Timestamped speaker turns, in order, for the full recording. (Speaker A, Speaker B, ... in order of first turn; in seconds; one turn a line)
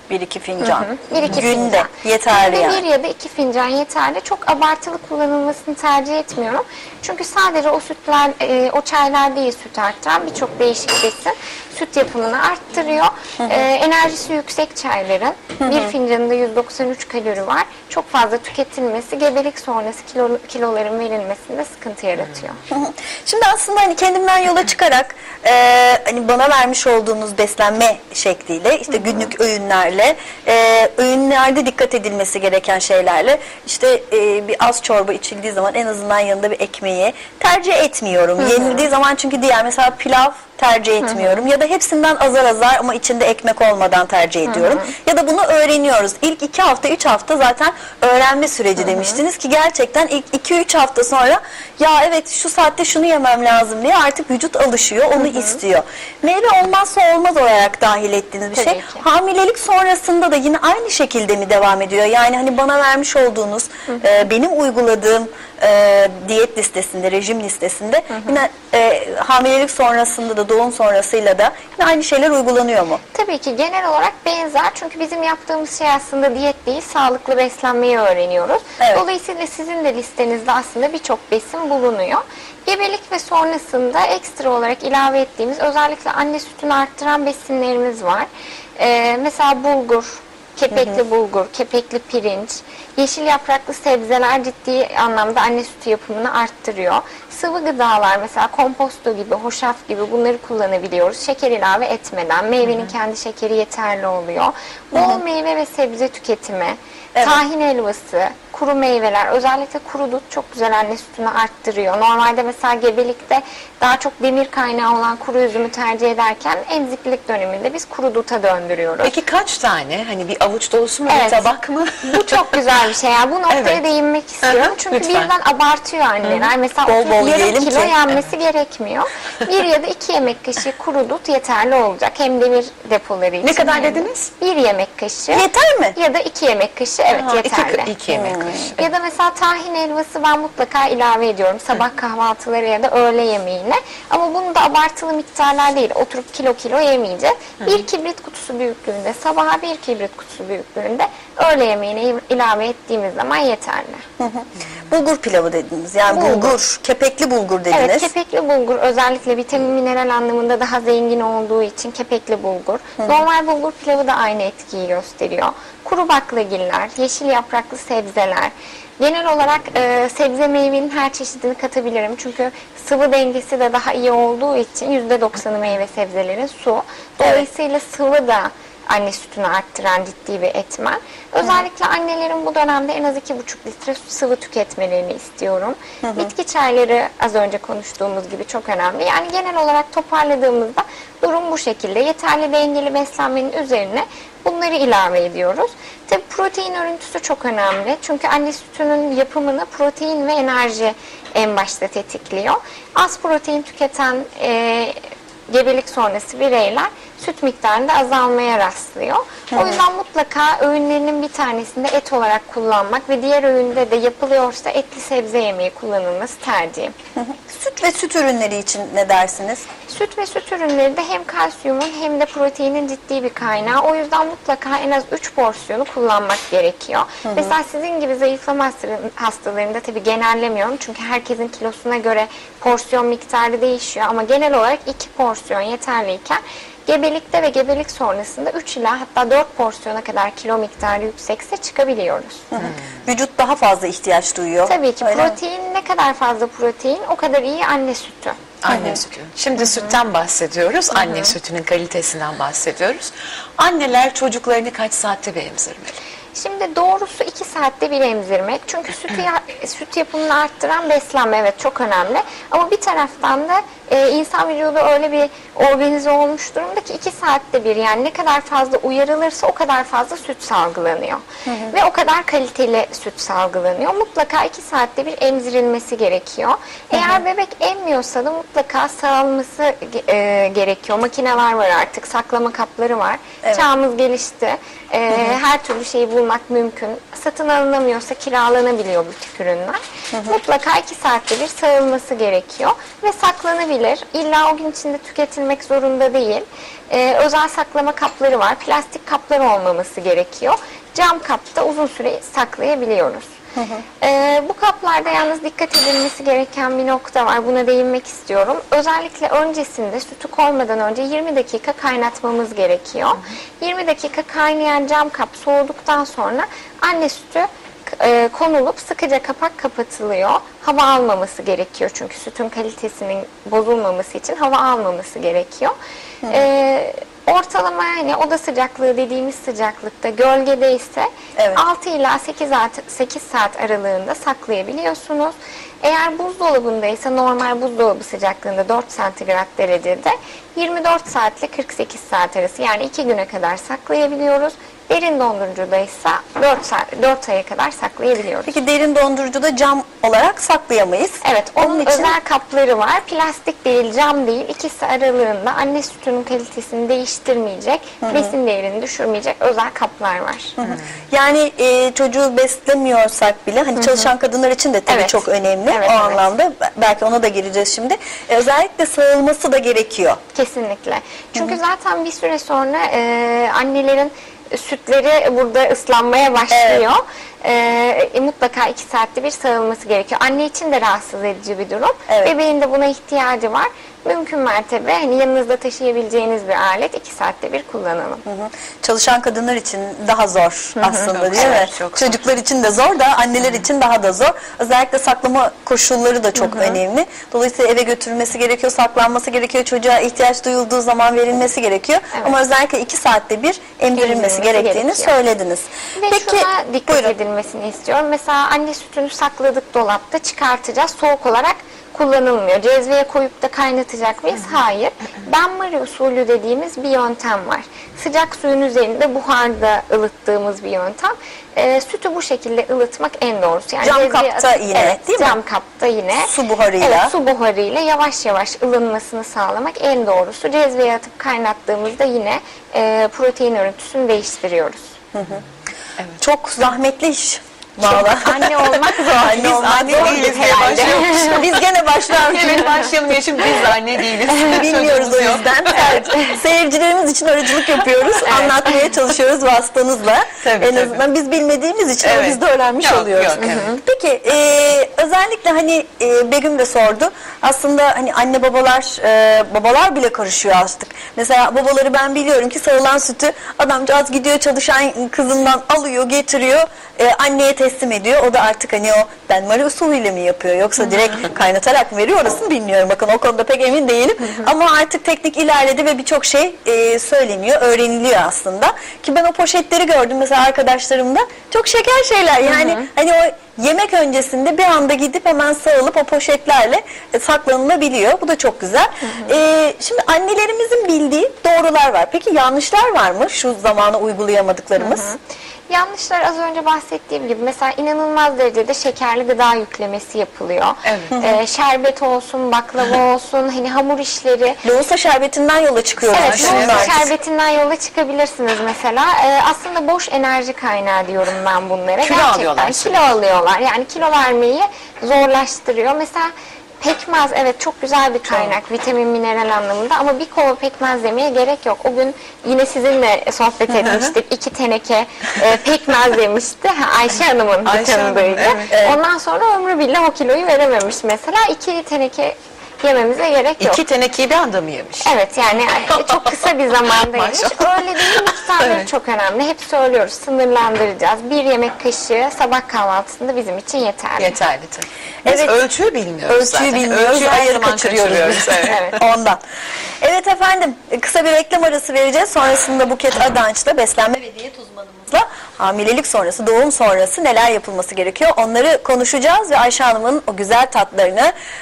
Speaker A: 0.1-2.8
Speaker B: 0.6-22.6
Speaker A: 15.6-15.9
Speaker A: 22.7-73.0
Speaker B: 28.9-29.3
Speaker B: 38.4-38.9
Speaker B: 41.0-41.4
Speaker B: 44.5-44.9
Speaker B: 48.8-49.2
Speaker B: 55.2-55.6
Speaker B: 58.5-59.0
Speaker B: 63.9-64.1
Speaker B: 68.1-68.4
Speaker B: 73.1-119.1
Speaker A: 90.7-91.0
Speaker A: 104.9-105.2
Speaker A: 107.1-107.4
Speaker C: 119.0-122.4
Speaker B: 121.1-121.5
Speaker B: 122.0-137.9
Speaker C: 123.5-123.8
Speaker C: 124.4-125.3
Speaker C: 126.2-126.5
Speaker A: 126.8-127.9
Speaker C: 133.4-134.3
Speaker A: 135.3-136.0
Speaker C: 137.1-138.9
Speaker A: 138.1-138.7
Speaker B: 138.8-154.0
Speaker A: 154.2-158.1
Speaker B: 156.1-156.6
Speaker B: 157.7-216.9
Speaker A: 186.0-186.3
Speaker A: 209.5-209.8
Speaker A: 217.2-219.7
Speaker B: 219.9-242.4
Speaker A: 227.2-227.5
Speaker A: 242.5-245.4
Speaker B: 244.6-248.4
Speaker C: 248.6-255.9
Speaker A: 248.7-248.9
Speaker B: 249.6-249.9
Speaker B: 250.9-251.3
Speaker B: 256.3-303.3
Speaker A: 271.4-271.7
Speaker A: 276.9-277.2
Speaker A: 290.1-290.4
Speaker A: 303.5-303.8
Speaker B: 304.0-325.8
Speaker B: 326.3-348.6
Speaker A: 348.4-352.1
Speaker B: 351.2-360.5
Speaker A: 358.0-358.3
Speaker A: 360.6-370.2
Speaker B: 363.8-364.1
Speaker B: 364.9-366.3
Speaker B: 370.3-388.2
Speaker A: 376.5-376.9
Speaker A: 382.1-382.3
Speaker A: 388.2-407.1
Speaker B: 390.8-391.6
Speaker C: 391.1-392.2
Speaker B: 396.4-396.8
Speaker B: 402.1-402.4
Speaker B: 403.9-405.1
Speaker B: 405.9-435.0
Speaker A: 423.8-425.4
Speaker A: 426.2-427.1
Speaker A: 435.1-435.4
Speaker A: 436.2-442.9
Speaker B: 437.8-441.4
Speaker C: 439.3-441.4
Speaker C: 442.1-446.3
Speaker A: 444.3-495.1
Speaker B: 446.0-446.4
Speaker B: 448.2-448.7
Speaker C: 450.4-451.0
Speaker C: 452.0-453.7
Speaker B: 453.4-453.8
Speaker B: 482.4-482.9
Speaker B: 489.1-489.3
Speaker B: 494.8-504.6
Speaker C: 500.8-501.1
Speaker A: 501.1-501.4
Speaker A: 504.6-507.1
Speaker C: 506.0-507.1
Speaker B: 506.1-533.8
Speaker C: 512.0-513.0
Speaker A: 523.7-524.0
Speaker C: 523.9-524.1
Speaker C: 527.6-528.8
Speaker C: 533.6-535.1
Speaker B: 535.0-544.4
Speaker C: 535.9-536.3
Speaker C: 537.1-538.9
Speaker C: 544.2-548.8
Speaker A: 545.2-545.6
Speaker A: 546.3-549.4
Speaker B: 548.7-549.0
Speaker A: 550.0-561.3